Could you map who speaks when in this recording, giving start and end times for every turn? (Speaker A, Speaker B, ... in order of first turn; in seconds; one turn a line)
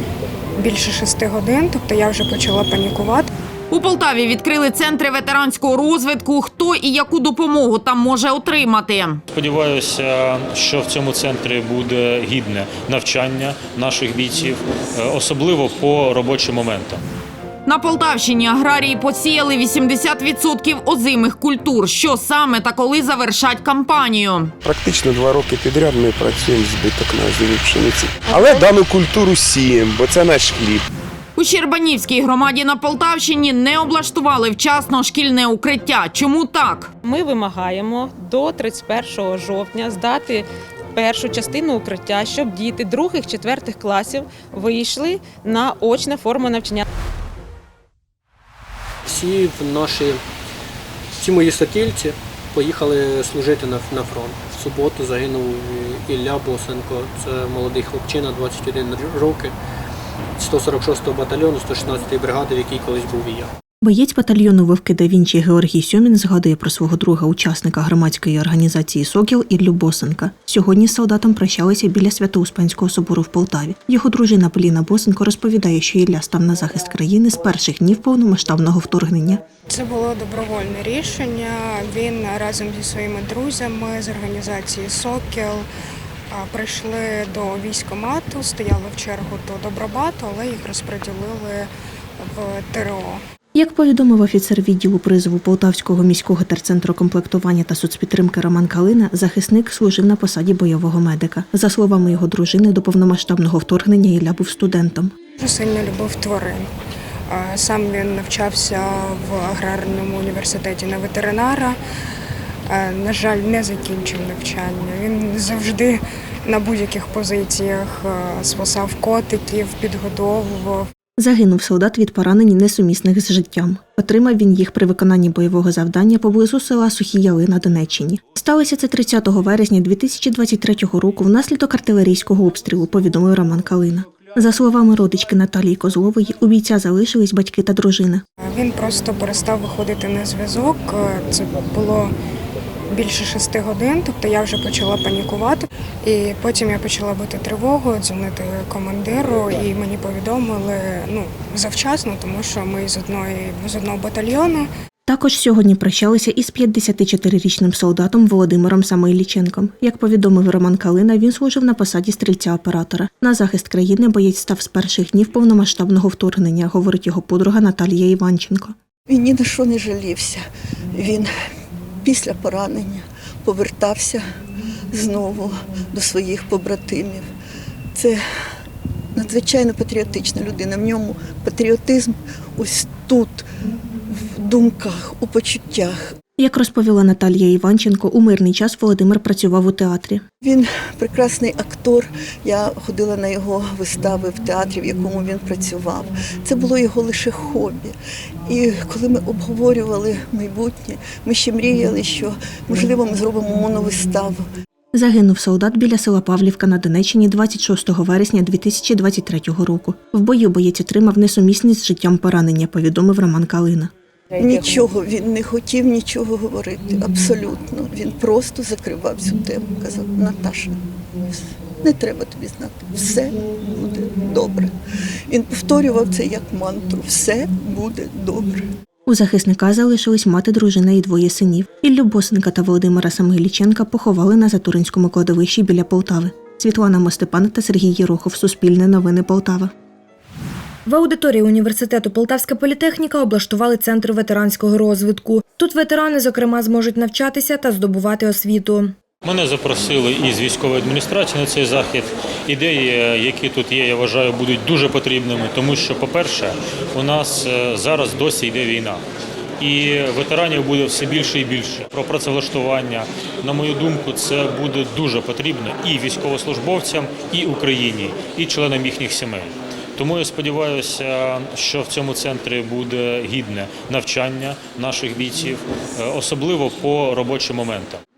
Speaker A: 0.6-3.3
Speaker B: 3.7-9.2
Speaker C: 9.3-17.0
Speaker B: 17.6-24.5
Speaker D: 24.6-30.9
Speaker B: 31.4-36.9
Speaker E: 37.0-46.8
Speaker F: 49.1-50.2
Speaker F: 51.2-59.5
Speaker F: 60.4-63.5
Speaker G: 63.8-79.4
Speaker A: 79.7-85.7
Speaker A: 86.3-91.7
Speaker A: 92.2-93.2
Speaker G: 93.5-105.1
Speaker A: 105.4-106.7
Speaker A: 107.3-111.7
Speaker A: 112.7-120.9
Speaker G: 121.2-138.2
Speaker A: 138.5-142.1
Speaker A: 142.9-154.7
Speaker G: 155.1-168.7
Speaker H: 169.1-170.4
Speaker H: 170.9-171.3
Speaker H: 172.0-174.2
Speaker H: 174.9-177.2
Speaker H: 179.2-183.4
Speaker H: 184.1-186.1
Speaker G: 186.4-190.2
Speaker H: 190.4-197.9
Speaker H: 198.5-204.4
Speaker G: 204.9-213.9
Speaker H: 214.3-224.7
Speaker H: 225.3-228.6
Speaker G: 229.1-239.7
Speaker I: 240.8-248.9
Speaker C: 249.2-259.0
Speaker C: 259.6-278.0